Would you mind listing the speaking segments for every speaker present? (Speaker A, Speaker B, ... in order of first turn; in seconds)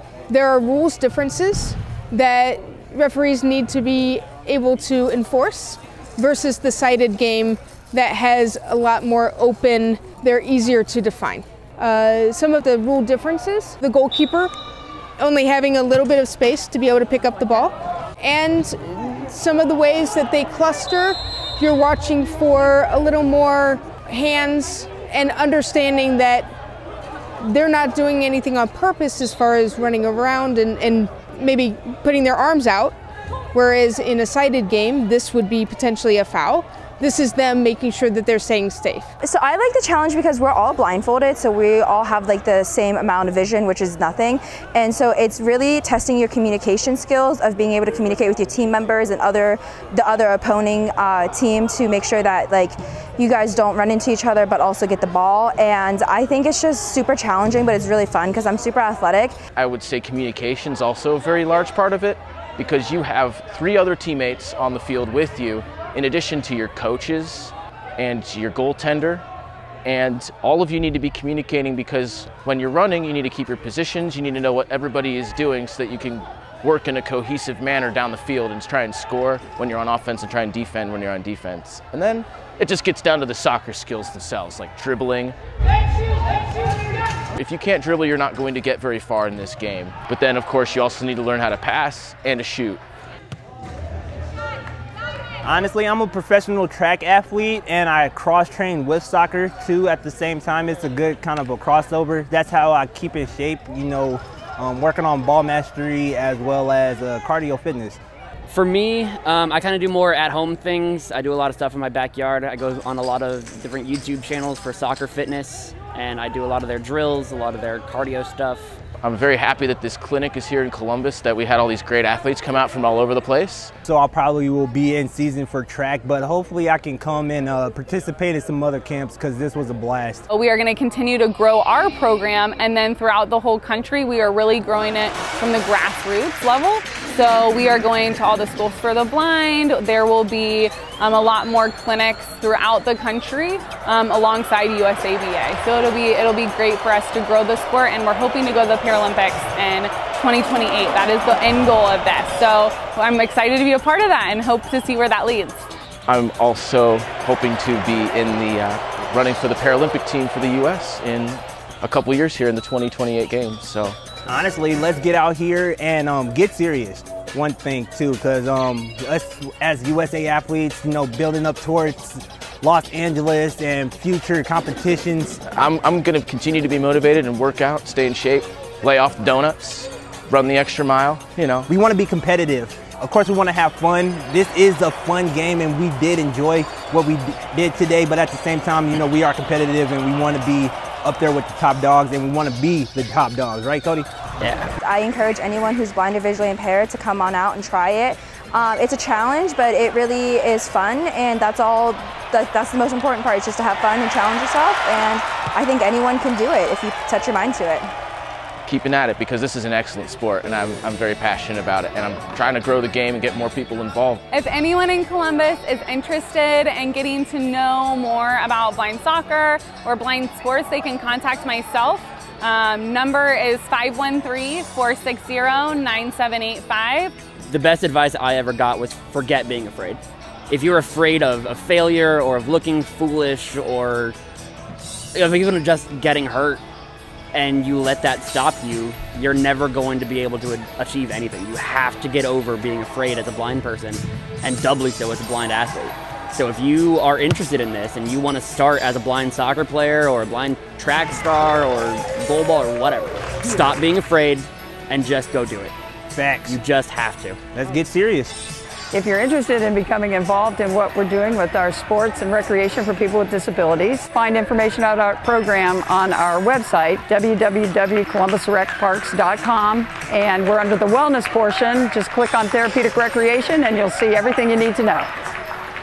Speaker A: 0.3-14.5, 15.2-26.5, 27.4-33.0, 33.5-39.1
Speaker B: 39.2-59.4, 194.8-207.9
Speaker C: 59.5-69.2, 69.8-85.4, 87.3-92.8, 119.0-123.7, 156.1-164.0, 175.5-181.7, 208.7-214.2
Speaker D: 95.4-108.0, 123.8-130.2, 164.3-175.4, 181.7-194.1, 256.1-256.6, 257.5-258.4
Speaker E: 108.5-118.8, 194.4-194.7, 227.5-234.2, 235.1-236.6, 237.3-255.8, 256.5-257.4
Speaker F: 130.3-155.7, 214.3-227.2
Speaker G: 258.9-275.1